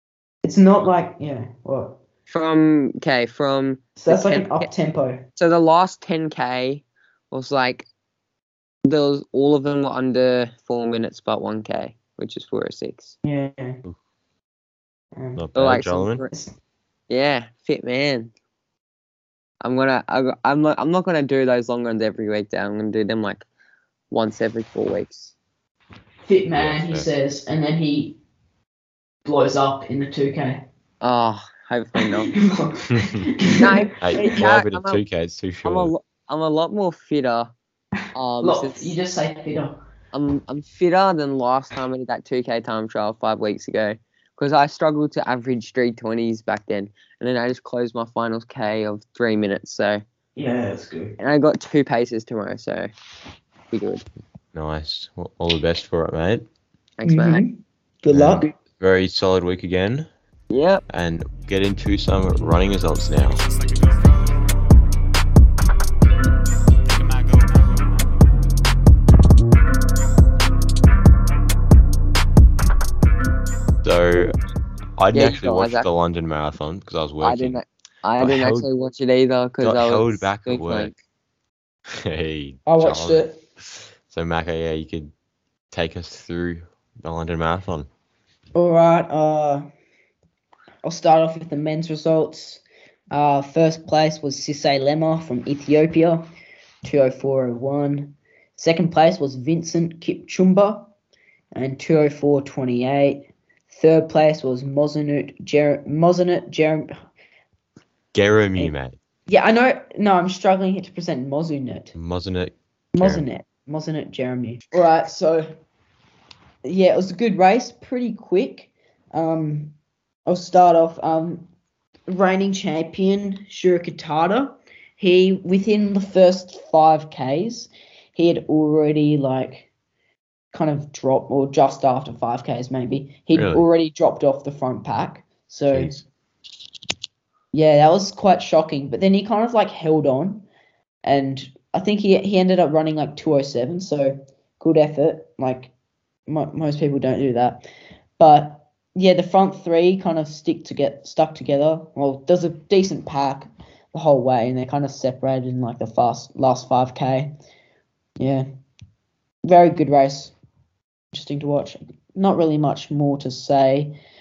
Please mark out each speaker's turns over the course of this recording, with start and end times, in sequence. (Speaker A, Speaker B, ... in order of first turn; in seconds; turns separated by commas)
Speaker A: 0.4-2.0, Speaker B: 2.3-4.7, Speaker A: 4.0-5.2, Speaker B: 5.4-7.9, Speaker B: 8.8-13.1, Speaker A: 13.2-13.8, Speaker A: 15.2-15.4, Speaker C: 15.3-16.2, Speaker B: 15.6-16.3, Speaker B: 17.1-18.3, Speaker B: 19.6-23.4, Speaker B: 24.1-25.3, Speaker A: 26.2-28.2, Speaker C: 26.6-27.1, Speaker A: 29.2-30.6, Speaker B: 31.0-32.3, Speaker A: 32.0-34.4, Speaker C: 32.9-33.3, Speaker B: 33.6-35.0, Speaker C: 34.0-35.9, Speaker B: 35.6-37.5, Speaker B: 38.1-39.0, Speaker A: 38.4-39.8, Speaker B: 40.1-50.0, Speaker A: 50.4-51.2, Speaker B: 51.2-52.9, Speaker B: 53.7-54.0, Speaker C: 54.5-56.5, Speaker B: 57.0-57.5, Speaker A: 57.0-58.5, Speaker C: 58.1-60.1, Speaker B: 60.5-60.8, Speaker C: 60.9-63.4, Speaker C: 73.8-74.3, Speaker C: 75.0-77.6, Speaker B: 75.1-75.9, Speaker B: 77.2-80.9, Speaker C: 78.2-78.7, Speaker C: 79.6-81.0, Speaker C: 81.9-85.1, Speaker A: 82.7-83.4, Speaker C: 85.7-87.9, Speaker A: 88.5-89.7, Speaker A: 90.8-96.3, Speaker A: 96.8-100.9, Speaker A: 101.5-106.9, Speaker C: 108.1-109.0, Speaker A: 109.3-112.0, Speaker C: 112.0-113.3, Speaker A: 112.9-115.5, Speaker A: 116.7-119.7, Speaker A: 120.3-121.5, Speaker A: 122.1-129.7, Speaker A: 130.5-136.0, Speaker C: 133.3-133.7, Speaker C: 135.7-136.0, Speaker A: 137.5-140.4, Speaker A: 141.0-145.7, Speaker A: 146.3-147.7, Speaker A: 148.2-157.3, Speaker A: 158.2-158.4, Speaker A: 159.4-160.3, Speaker A: 161.1-164.0